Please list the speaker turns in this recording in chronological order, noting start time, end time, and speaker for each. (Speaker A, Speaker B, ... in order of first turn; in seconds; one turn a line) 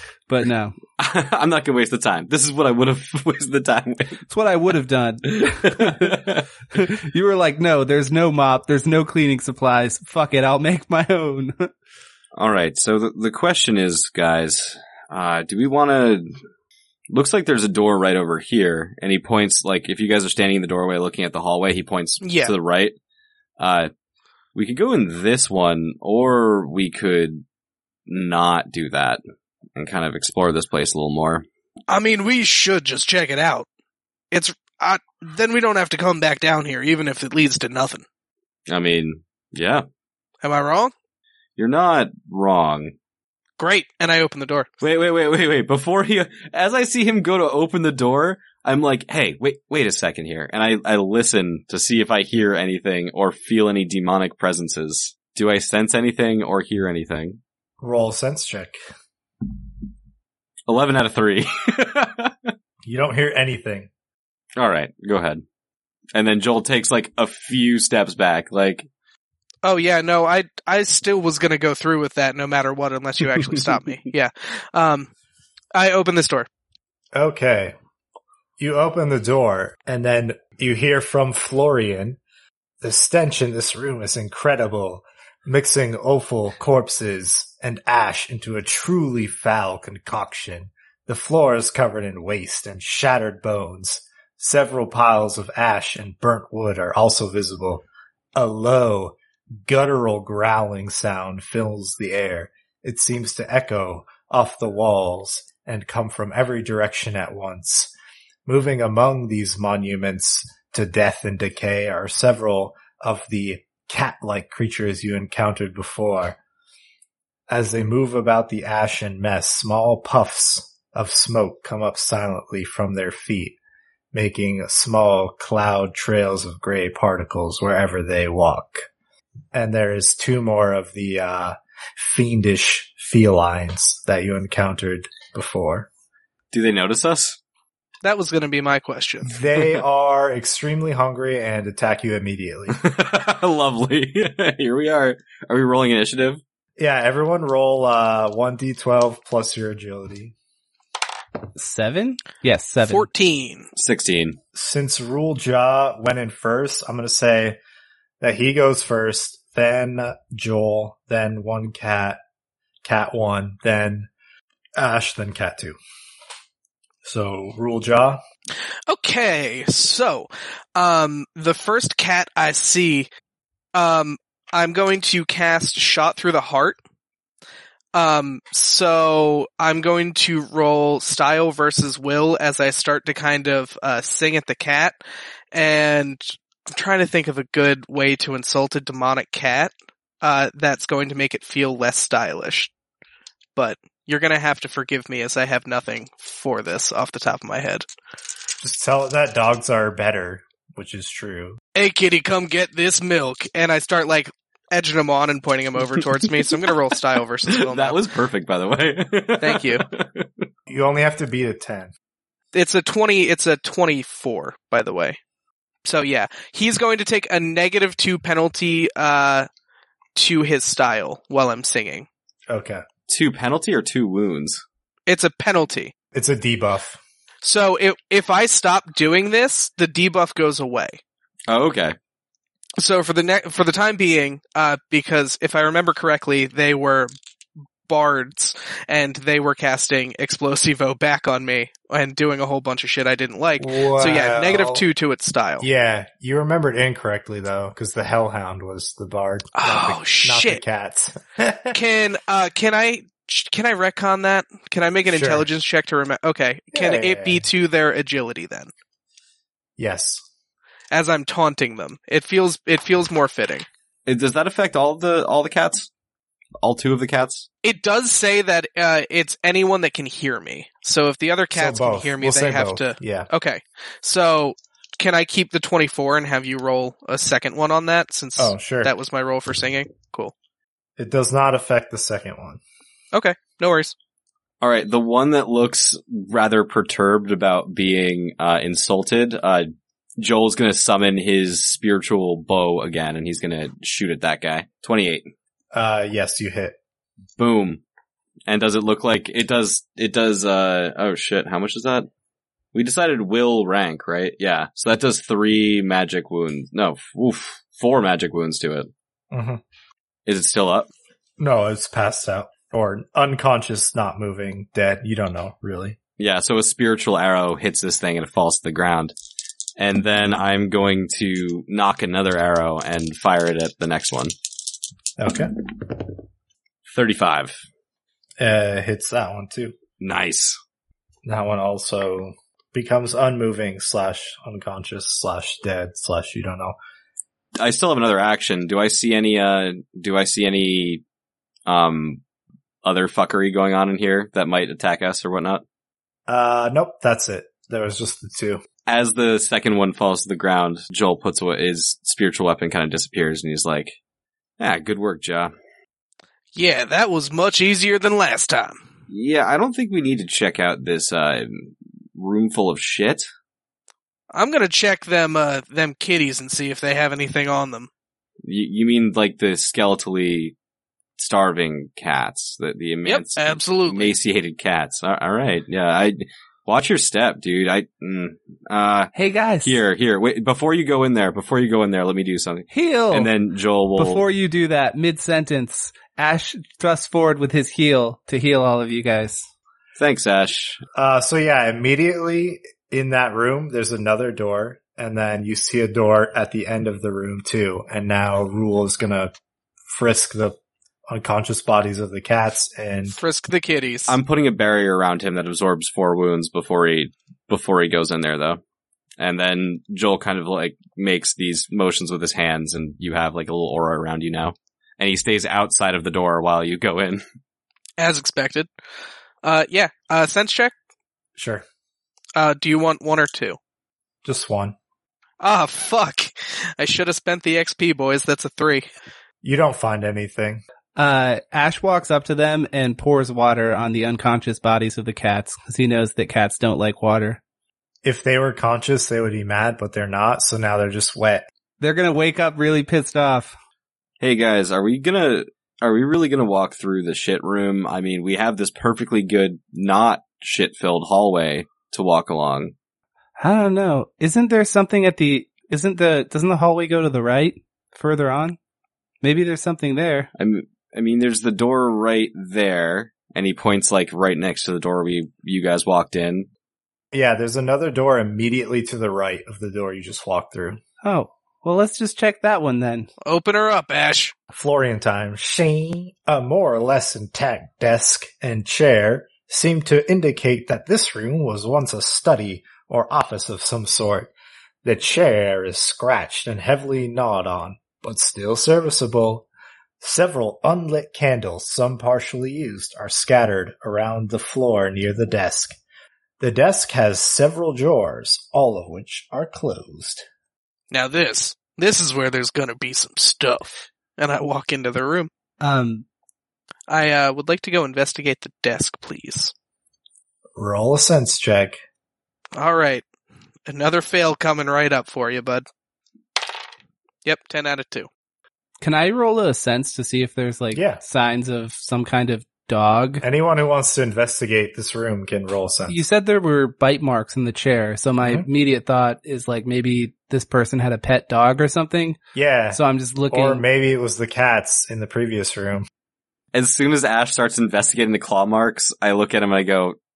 Speaker A: 0.3-0.8
Speaker B: 1.0-4.2
Speaker A: 4.3-11.7
Speaker B: 5.3-6.5
Speaker B: 12.3-16.3
Speaker B: 17.1-22.9
Speaker C: 22.2-22.5
Speaker B: 23.6-23.9
Speaker B: 24.6-27.4
Speaker B: 28.1-29.2
Speaker B: 29.8-31.4
Speaker C: 31.9-33.7
Speaker C: 34.3-38.0
Speaker B: 38.7-39.9
Speaker C: 40.4-40.9
Speaker B: 41.6-42.9
Speaker C: 43.6-44.7
Speaker B: 44.8-57.4
Speaker D: 57.8-58.8
Speaker B: 60.7-62.5
Speaker D: 62.8-63.9
Speaker B: 64.6-65.4
Speaker B: 66.1-68.9
Speaker C: 69.6-75.1
Speaker C: 75.7-76.5
Speaker D: 77.1-77.8
Speaker D: 78.6-82.2
Speaker D: 82.8-97.8
Speaker D: 98.4-107.9
Speaker D: 108.5-116.4
Speaker D: 117.5-123.6
Speaker D: 124.1-128.8
Speaker D: 129.5-135.9
Speaker B: 136.5-137.4
Speaker C: 138.0-139.4
Speaker D: 139.2-142.8
Speaker B: 142.7-146.4
Speaker D: 146.8-150.3
Speaker A: 151.6-153.1
Speaker C: 152.9-153.7
Speaker B: 153.8-154.4
Speaker D: 154.5-157.6
Speaker D: 158.2-162.2
Speaker D: 162.8-164.1
Speaker D: 164.8-165.8
Speaker D: 167.0-168.2
Speaker C: 168.9-173.1
Speaker C: 173.7-176.8
Speaker C: 177.9-185.0
Speaker C: 185.5-192.7
Speaker C: 193.6-197.9
Speaker D: 198.6-201.6
Speaker C: 201.8-208.0
Speaker B: 207.5-210.4
Speaker C: 209.4-209.8
Speaker D: 210.7-211.9
Speaker C: 212.5-215.2
Speaker C: 215.8-219.5
Speaker C: 220.2-222.1
Speaker D: 222.5-222.8
Speaker B: 223.1-224.6
Speaker C: 225.1-225.9
Speaker D: 226.1-227.0
Speaker C: 227.4-231.0
Speaker B: 231.5-231.9
Speaker C: 232.8-237.1
Speaker C: 237.9-245.7
Speaker D: 243.6-244.8
Speaker D: 245.6-251.8
Speaker C: 249.6-250.6
Speaker C: 251.7-258.7
Speaker D: 255.1-255.5
Speaker D: 256.7-257.4
Speaker D: 259.8-260.2
Speaker C: 260.9-263.7
Speaker B: 264.1-265.9
Speaker B: 266.6-267.5
Speaker C: 267.6-280.3
Speaker D: 271.5-273.3
Speaker D: 278.4-278.9
Speaker D: 281.0-282.6
Speaker C: 283.1-283.9
Speaker B: 284.6-295.3
Speaker D: 295.7-296.8
Speaker B: 297.4-297.8
Speaker B: 298.5-302.1
Speaker B: 302.7-308.9
Speaker D: 309.3-309.6
Speaker B: 310.3-310.9
Speaker D: 311.4-316.0
Speaker B: 316.2-319.1
Speaker B: 319.8-324.3
Speaker D: 325.2-325.5
Speaker B: 326.9-327.6
Speaker D: 328.4-329.8
Speaker B: 330.0-330.6
Speaker D: 331.2-336.8
Speaker B: 337.6-341.0
Speaker B: 341.7-342.2
Speaker B: 342.8-345.6
Speaker D: 346.3-348.6
Speaker B: 348.9-354.0
Speaker B: 354.6-355.5
Speaker C: 356.6-358.8
Speaker B: 359.1-363.3
Speaker C: 364.3-367.9
Speaker B: 368.4-370.6
Speaker B: 371.2-379.1
Speaker C: 373.1-374.1
Speaker A: 379.1-379.8
Speaker B: 379.6-384.2
Speaker A: 382.7-383.3
Speaker A: 384.0-389.5
Speaker B: 390.0-390.8
Speaker D: 391.0-399.3
Speaker D: 399.9-400.6
Speaker D: 401.1-403.2
Speaker C: 403.2-404.1
Speaker B: 404.1-408.6
Speaker B: 409.2-417.2
Speaker C: 418.0-418.7
Speaker C: 419.4-420.7
Speaker D: 421.4-421.6
Speaker C: 422.4-423.6
Speaker D: 424.2-424.8
Speaker C: 425.4-428.9
Speaker D: 429.4-430.6
Speaker A: 431.0-437.4
Speaker D: 438.0-441.5
Speaker A: 441.8-443.6
Speaker B: 444.2-452.7
Speaker A: 453.4-458.6
Speaker A: 459.2-460.3
Speaker B: 460.4-466.5
Speaker D: 467.1-470.8
Speaker A: 471.0-473.1
Speaker C: 473.2-474.3
Speaker D: 474.5-484.3
Speaker D: 484.8-489.5
Speaker D: 490.0-495.8
Speaker D: 496.4-500.2
Speaker C: 500.9-505.3
Speaker A: 505.6-506.1
Speaker C: 506.9-509.5
Speaker D: 510.6-511.8
Speaker C: 512.5-513.0
Speaker C: 513.7-515.6
Speaker C: 517.2-518.1
Speaker A: 518.8-523.2
Speaker D: 520.7-521.0
Speaker D: 523.2-526.0
Speaker A: 525.9-532.2
Speaker D: 528.2-528.5
Speaker D: 532.4-532.8
Speaker A: 532.7-533.6
Speaker D: 533.3-535.9
Speaker B: 536.5-540.0